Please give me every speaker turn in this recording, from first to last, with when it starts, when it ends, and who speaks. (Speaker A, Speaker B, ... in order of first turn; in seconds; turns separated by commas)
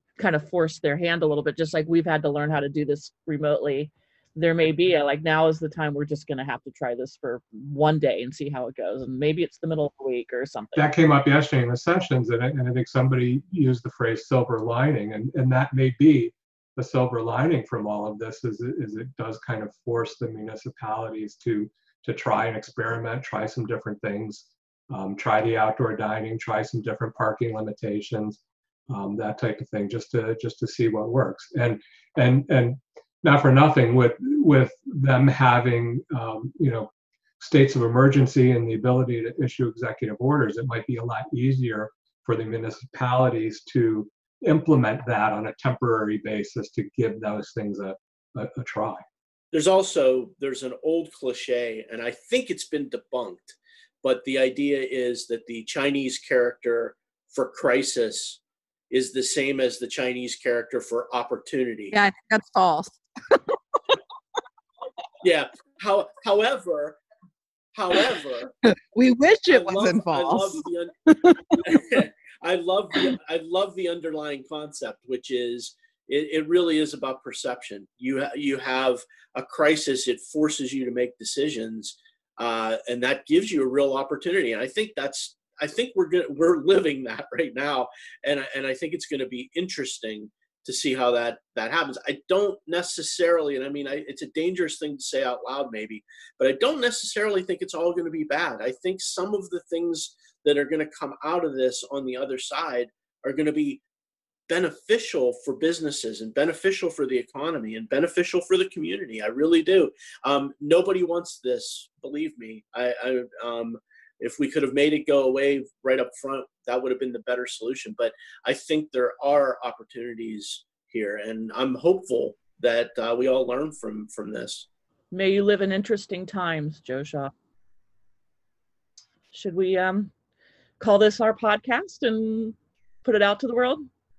Speaker A: 0.1-10.9, Speaker B: 10.8-49.0, Speaker C: 49.5-61.9, Speaker D: 61.9-64.0, Speaker C: 65.2-67.0, Speaker C: 67.7-68.5, Speaker D: 68.7-71.8, Speaker C: 69.5-71.0, Speaker C: 71.5-103.8, Speaker C: 104.5-124.7, Speaker A: 125.1-127.3, Speaker A: 129.3-130.1, Speaker A: 130.8-133.9